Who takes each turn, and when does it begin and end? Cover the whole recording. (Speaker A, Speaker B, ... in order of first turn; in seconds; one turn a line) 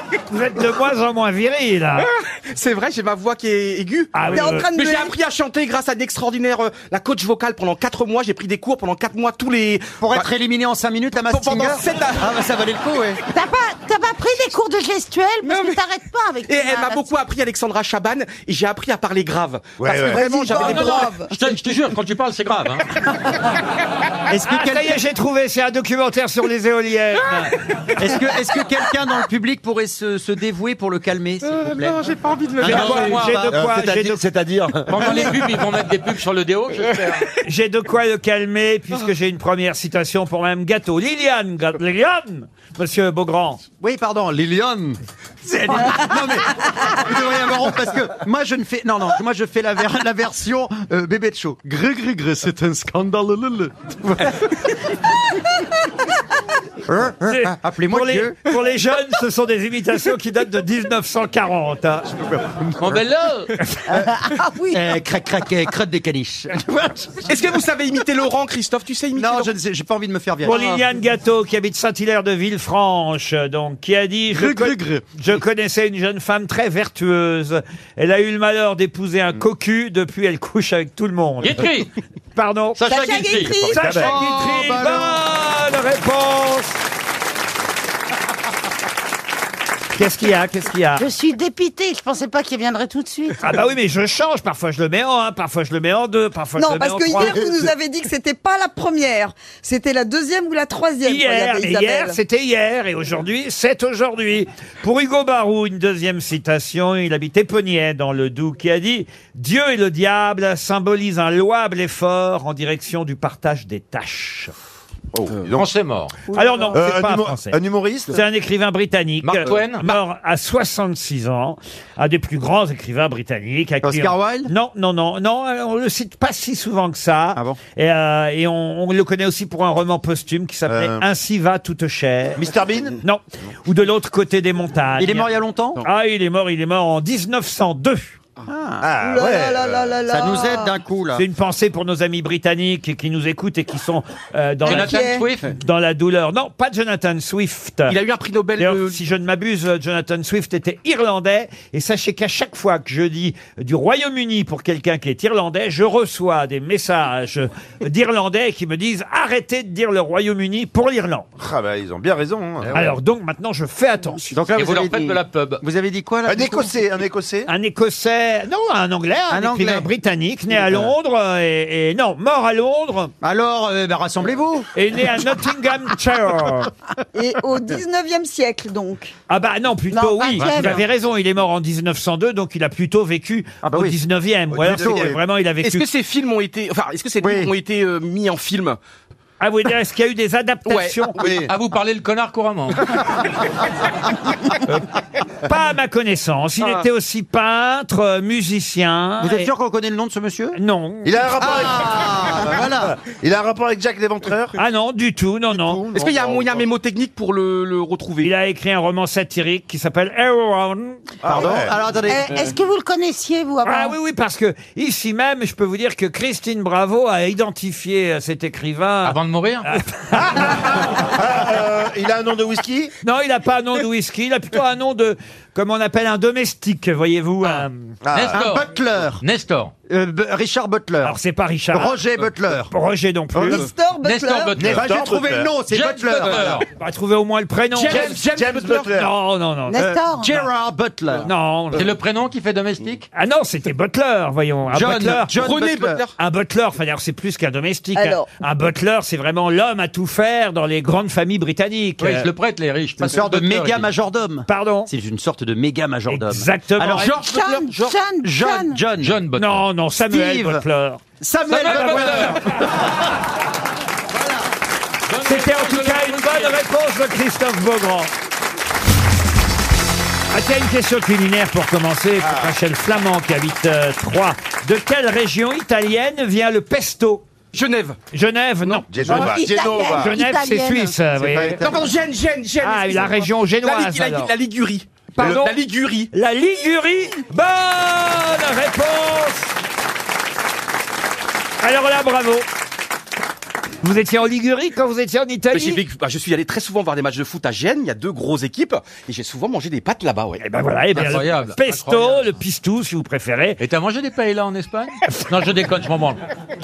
Speaker A: 0.3-2.1
Speaker B: 2.0-10.3
Speaker A: 4.1-4.7
Speaker C: 4.3-5.1
Speaker D: 10.0-13.2
Speaker B: 11.2-12.4
Speaker E: 13.3-17.1
Speaker B: 15.4-15.8
Speaker B: 16.4-21.2
Speaker F: 19.8-20.7
Speaker C: 20.1-21.3
Speaker G: 20.5-22.8
Speaker D: 24.3-24.9
Speaker A: 24.4-27.5
Speaker D: 27.9-32.0
Speaker B: 31.4-33.0
Speaker D: 32.6-34.0
Speaker A: 32.6-34.2
Speaker G: 32.6-33.4
Speaker F: 33.4-35.3
Speaker G: 34.9-37.2
Speaker B: 36.8-37.2
Speaker A: 37.4-43.6
Speaker D: 43.8-54.3
Speaker F: 52.5-53.2
Speaker D: 56.8-58.4
Speaker A: 57.2-62.4
Speaker G: 62.8-63.5
Speaker D: 63.9-67.2
Speaker E: 64.2-64.8
Speaker B: 67.2-69.5
Speaker D: 69.1-70.6
Speaker A: 70.4-81.7
Speaker B: 70.5-70.8
Speaker D: 74.3-75.0
Speaker G: 81.4-81.9
Speaker A: 82.3-83.2
Speaker G: 82.8-83.7
Speaker C: 82.8-84.0
Speaker F: 83.7-84.2
Speaker A: 83.7-86.8
Speaker D: 83.9-85.2
Speaker A: 89.9-91.0
Speaker E: 91.0-93.5
Speaker A: 93.4-97.4
Speaker C: 96.6-102.2
Speaker A: 101.0-114.5
Speaker F: 115.1-115.6
Speaker B: 115.3-115.6
Speaker G: 115.5-116.2
Speaker B: 116.3-116.7
Speaker A: 116.3-132.5
Speaker F: 116.7-118.1
Speaker G: 119.2-119.9
Speaker D: 123.8-124.5
Speaker F: 130.7-131.0
Speaker F: 132.4-133.0
Speaker A: 133.0-138.2
Speaker D: 135.0-135.8
Speaker D: 138.5-138.9
Speaker F: 138.8-140.0
Speaker C: 139.0-140.7
Speaker D: 140.1-141.2
Speaker A: 141.1-148.0
Speaker G: 144.6-145.5
Speaker C: 144.7-145.3
Speaker B: 147.9-149.0
Speaker A: 148.6-161.3
Speaker F: 161.4-162.9
Speaker A: 162.7-164.3
Speaker D: 164.3-166.8
Speaker G: 164.5-165.6
Speaker F: 166.2-167.5
Speaker A: 167.5-173.1
Speaker D: 169.3-169.9
Speaker D: 173.2-174.7
Speaker A: 174.7-176.7
Speaker C: 177.1-179.1
Speaker A: 179.3-185.8
Speaker E: 179.9-180.8
Speaker D: 180.4-180.8
Speaker D: 183.6-183.9
Speaker F: 184.5-185.2
Speaker D: 184.6-185.1
Speaker B: 185.6-188.8
Speaker D: 187.2-187.5
Speaker A: 189.4-191.2
Speaker B: 190.7-191.4
Speaker F: 191.2-191.5
Speaker G: 191.5-193.0
Speaker A: 195.4-199.5
Speaker D: 199.2-200.6
Speaker A: 200.5-201.5
Speaker F: 201.0-204.6
Speaker D: 201.3-203.0
Speaker A: 204.6-205.9
Speaker F: 205.5-206.7
Speaker B: 205.9-208.3
Speaker A: 208.2-211.0
Speaker F: 211.2-211.7
Speaker D: 211.2-212.4
Speaker E: 212.1-213.9
Speaker A: 213.6-220.8
Speaker G: 219.0-219.7
Speaker F: 220.3-222.9
Speaker A: 223.0-227.9
Speaker F: 228.0-228.4
Speaker G: 228.1-229.7
Speaker D: 228.2-229.2
Speaker D: 229.9-231.2
Speaker A: 231.0-232.0
Speaker D: 231.7-232.7
Speaker A: 232.7-233.7
Speaker C: 233.5-234.6
Speaker G: 234.0-235.0
Speaker F: 234.6-235.5
Speaker D: 234.7-236.6
Speaker G: 235.7-236.7
Speaker A: 236.8-238.3
Speaker B: 237.7-239.0
Speaker F: 237.9-239.1
Speaker A: 238.8-240.4
Speaker E: 239.7-240.3
Speaker D: 240.1-241.3
Speaker A: 241.2-241.9
Speaker G: 241.7-243.1
Speaker A: 243.1-245.4
Speaker D: 244.7-246.0
Speaker B: 245.3-246.1
Speaker A: 246.2-252.3
Speaker C: 247.9-248.3
Speaker G: 252.0-253.9
Speaker D: 253.0-259.2
Speaker A: 254.5-254.9
Speaker A: 256.1-257.1
Speaker E: 257.1-258.8
Speaker G: 259.0-259.6
Speaker A: 259.4-262.5
Speaker D: 260.0-260.6
Speaker D: 261.2-262.6
Speaker G: 261.5-262.4
Speaker D: 264.1-264.5
Speaker G: 265.1-266.6
Speaker A: 265.2-268.1
Speaker A: 270.3-277.2
Speaker F: 272.2-272.5
Speaker B: 277.5-278.0
Speaker A: 278.1-281.7
Speaker B: 278.6-279.3
Speaker F: 278.9-280.2
Speaker E: 279.0-281.0
Speaker D: 281.2-281.6
Speaker B: 281.5-286.1
Speaker A: 282.6-284.3
Speaker A: 285.1-285.6
Speaker A: 286.1-289.5
Speaker A: 291.6-292.4
Speaker A: 293.8-295.8
Speaker B: 295.5-300.4
Speaker A: 300.4-303.6
Speaker G: 300.9-302.4
Speaker G: 303.6-306.2